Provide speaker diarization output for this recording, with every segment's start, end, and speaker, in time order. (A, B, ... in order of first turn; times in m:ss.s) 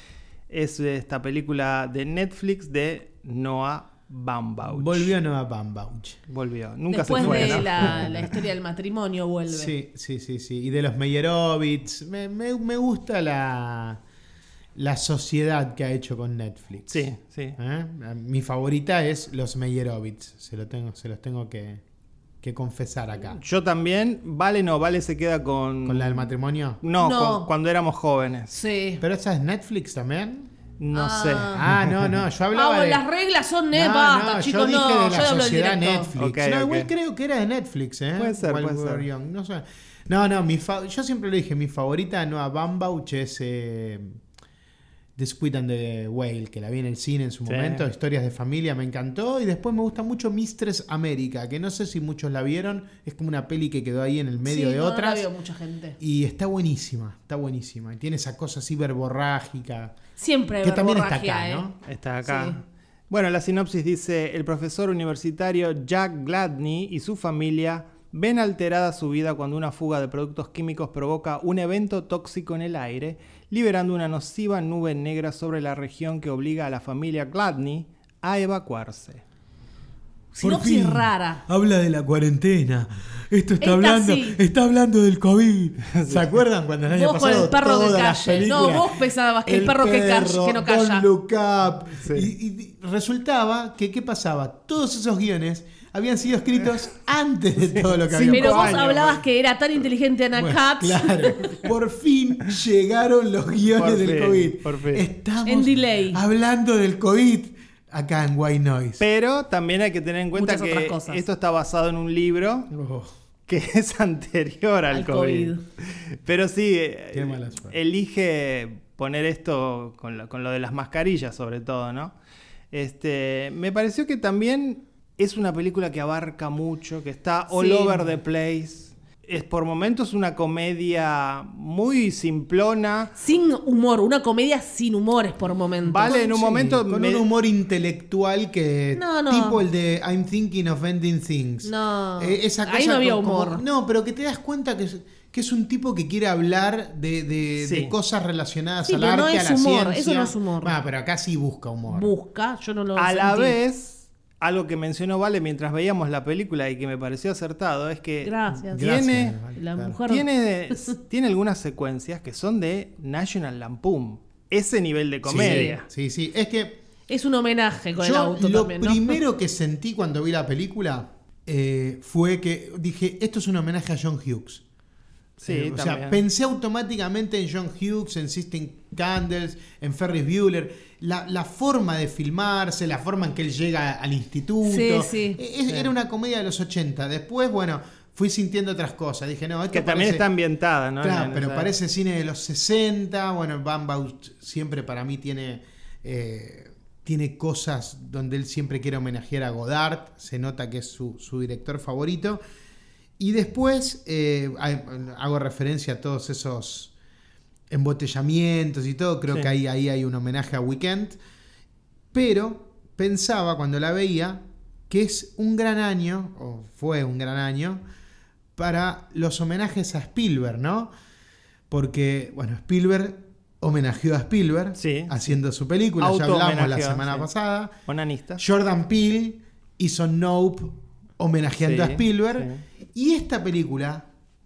0:00.5-0:05.1 A
0:04.7-0:06.2 B
0:06.3-0:08.2 A
0:06.9-0:09.7 C
0:07.2-0:08.3 B
0:09.5-0:14.0 B
0:14.8-0:21.8 B
0:16.9-0:17.6 A
0:22.4-0:23.4 B
0:23.3-0:26.3 A
0:25.8-0:26.8 B
0:26.8-0:28.5 A
0:27.0-0:27.5 C
0:28.5-0:29.0 C
0:29.0-0:30.5 B
0:30.8-0:32.1 A
0:30.9-0:31.6 C
0:31.5-0:33.0 B
0:32.5-0:36.1 C
0:33.7-0:44.2 B
0:36.2-0:36.9 A
0:38.2-0:39.0 A
0:45.2-0:55.3 B
0:47.4-0:47.8 A
0:54.4-0:56.0 C
0:56.0-1:00.0 B
1:00.2-1:01.6 C
1:00.6-1:01.8 B
1:01.8-1:19.2 A
1:02.2-1:02.6 C
1:20.3-1:21.4 C
1:20.4-1:38.8 B
1:23.6-1:24.4 C
1:25.9-1:26.2 A
1:26.9-1:31.0 C
1:32.0-1:32.3 A
1:37.6-1:39.2 A
1:38.3-1:41.6 C
1:40.4-1:49.0 B
1:43.7-1:45.0 A
1:45.4-1:46.2 C
1:49.0-1:52.7 A
1:50.3-1:51.2 C
1:52.7-1:53.1 B
1:53.5-2:02.1 A
1:54.9-1:55.6 C
1:57.1-1:57.8 B
2:02.7-2:13.1 A
2:07.5-2:08.0 C
2:13.2-2:16.6 C
2:15.8-2:17.2 A
2:16.5-2:32.1 B
2:18.9-2:19.6 C
2:21.6-2:23.6 C
2:27.6-2:27.9 A
2:28.8-2:30.7 C
2:31.9-2:33.6 C
2:33.0-2:39.4 A
2:38.2-2:39.0 C
2:38.6-2:40.0 B
2:39.5-2:40.9 C
2:40.1-2:45.8 A
2:45.2-2:46.8 B
2:45.3-2:45.8 C
2:47.1-2:49.2 C
2:48.0-2:54.6 B
2:55.4-2:56.2 A
2:55.4-3:10.2 B
3:04.6-3:05.4 C
3:09.7-3:11.7 A
3:11.0-3:22.4 B
3:23.2-3:26.9 B
3:27.7-3:31.2 B
3:32.1-3:37.8 B
3:38.6-3:40.9 B
3:41.7-3:47.7 B
3:44.8-3:45.3 A
3:46.0-3:47.3 A
3:47.9-3:48.4 A
3:48.4-3:54.1 B
3:51.6-3:52.6 A